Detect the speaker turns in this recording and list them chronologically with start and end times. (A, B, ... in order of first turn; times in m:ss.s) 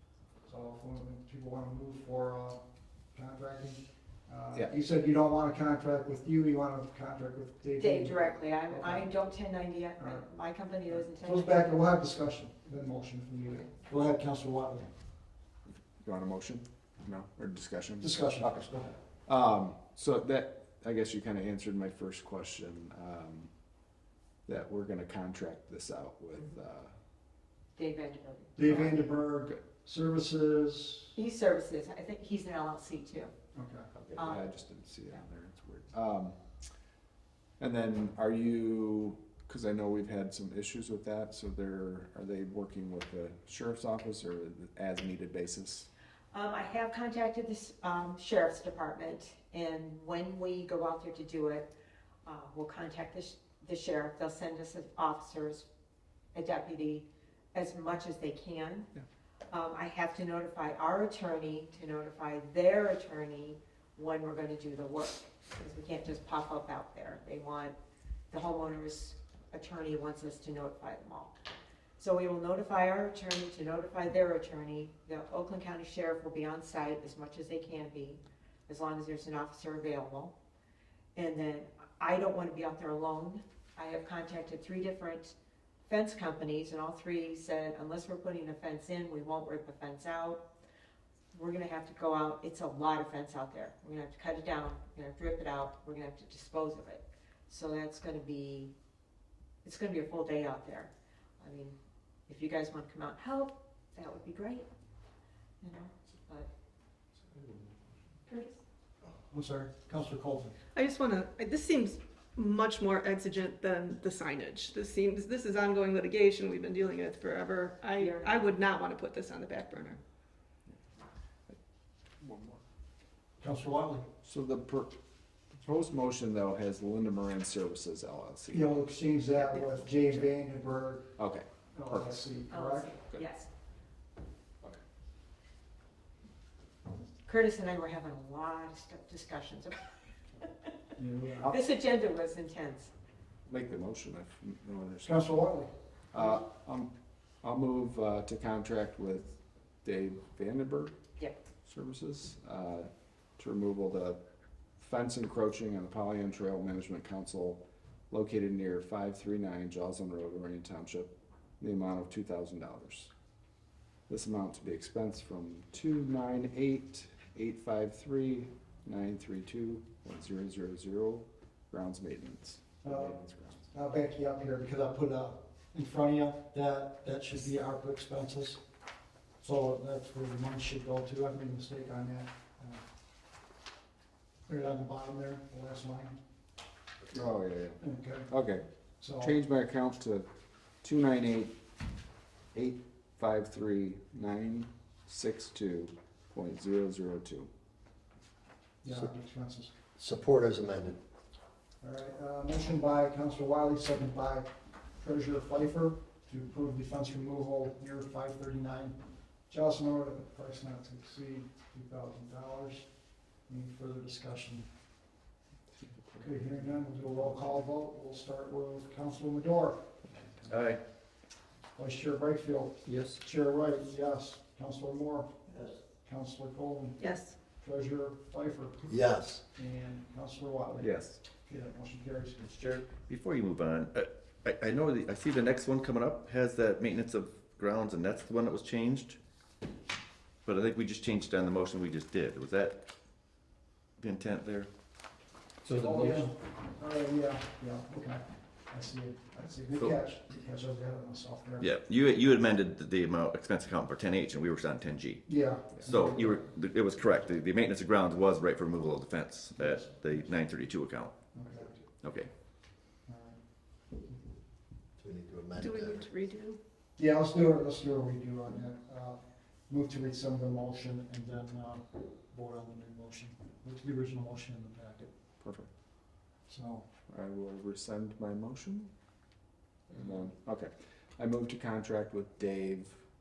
0:00.5-0:02.6 A
0:03.1-0:09.1 A
0:07.8-0:11.8 B
0:10.0-0:10.3 A
0:10.9-0:14.9 A
0:15.7-0:18.7 C
0:18.0-0:19.0 A
0:19.2-0:23.5 C
0:24.5-0:27.0 C
0:27.8-0:29.0 B
0:28.6-0:31.1 A
0:28.7-0:28.9 C
0:31.2-0:33.3 B
0:33.6-0:33.9 A
0:34.1-0:36.4 C
0:34.2-0:34.4 B
0:37.6-0:45.9 C
0:46.3-0:51.7 B
0:52.3-0:55.7 B
0:56.3-0:58.9 B
0:59.5-1:07.8 B
1:08.3-1:11.3 B
1:12.0-1:20.3 B
1:21.2-1:25.3 B
1:25.9-1:30.4 B
1:31.3-1:38.7 B
1:39.6-1:41.8 B
1:42.3-1:44.7 B
1:45.6-1:46.5 B
1:48.3-1:48.5 B
1:49.3-1:50.6 A
1:50.8-2:00.0 D
1:58.0-1:58.5 B
2:02.2-2:02.6 C
2:03.4-2:04.1 A
2:04.2-2:05.0 C
2:05.6-2:08.6 C
2:08.5-2:11.1 A
2:11.2-2:12.2 C
2:11.7-2:12.9 A
2:12.5-2:13.5 B
2:17.3-2:19.8 B
2:20.4-2:20.7 B
2:21.0-2:21.5 A
2:21.4-2:22.9 B
2:23.5-2:25.2 C
2:25.0-2:25.7 A
2:26.1-2:31.0 C
2:31.6-2:34.2 C
2:34.8-2:43.1 C
2:44.1-2:53.7 C
2:52.8-2:53.2 A
2:53.7-2:58.6 A
2:59.4-3:02.8 A
3:04.5-3:06.2 A
3:07.1-3:08.7 C
3:07.8-3:08.3 A
3:09.0-3:09.3 A
3:09.2-3:10.3 C
3:10.8-3:11.6 C
3:12.5-3:17.5 C
3:18.8-3:19.7 A
3:20.0-3:21.0 E
3:21.8-3:29.0 A
3:29.5-3:32.9 A
3:33.5-3:34.7 A
3:35.7-3:37.2 C
3:36.2-3:39.8 A
3:40.5-3:40.8 F
3:41.8-3:49.0 A
3:47.0-3:47.4 D
3:48.9-3:49.4 E
3:49.5-3:52.5 A
3:50.8-3:51.2 C
3:52.4-3:59.2 F
4:00.4-4:02.8 F
4:04.0-4:04.7 F
4:05.7-4:11.7 A
4:11.6-4:21.2 F
4:15.3-4:16.4 A
4:19.6-4:20.3 A
4:21.3-4:21.8 A
4:22.0-4:22.3 F
4:23.1-4:23.4 A
4:25.0-4:26.1 E
4:25.6-4:26.6 D
4:27.0-4:35.1 A
4:35.4-4:35.7 C
4:36.5-4:36.9 A
4:37.1-4:38.9 C
4:39.9-4:43.0 C